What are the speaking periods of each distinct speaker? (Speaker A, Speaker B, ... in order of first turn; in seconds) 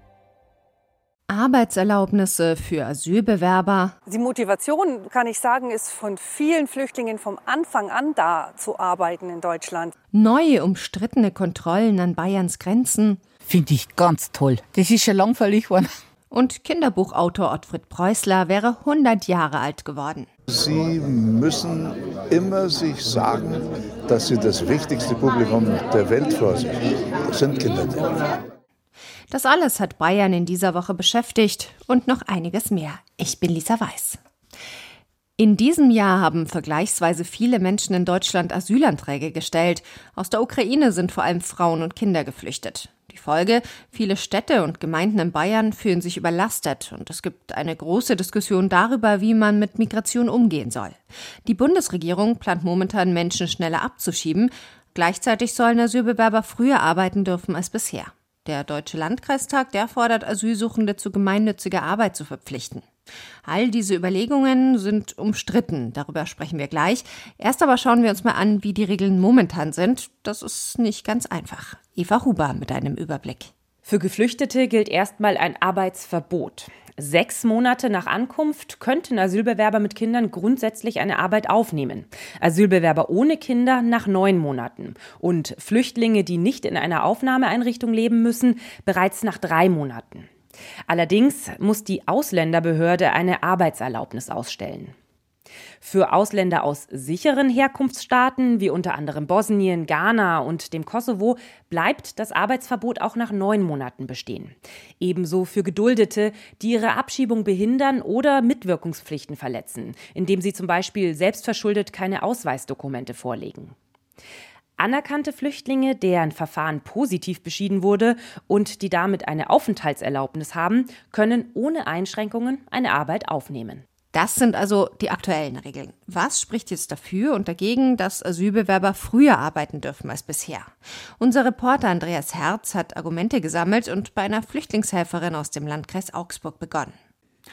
Speaker A: 1.3-4.0, 10.1-13.2, 16.3-20.3, 29.3-34.2, 35.4-62.9, 63.5-73.5, 124.1-136.9
Speaker B: 4.1-9.9
Speaker C: 13.4-15.9
Speaker D: 20.5-26.7, 27.2-28.2
Speaker E: 73.8-90.3, 90.9-94.9, 95.8-113.7, 114.8-123.8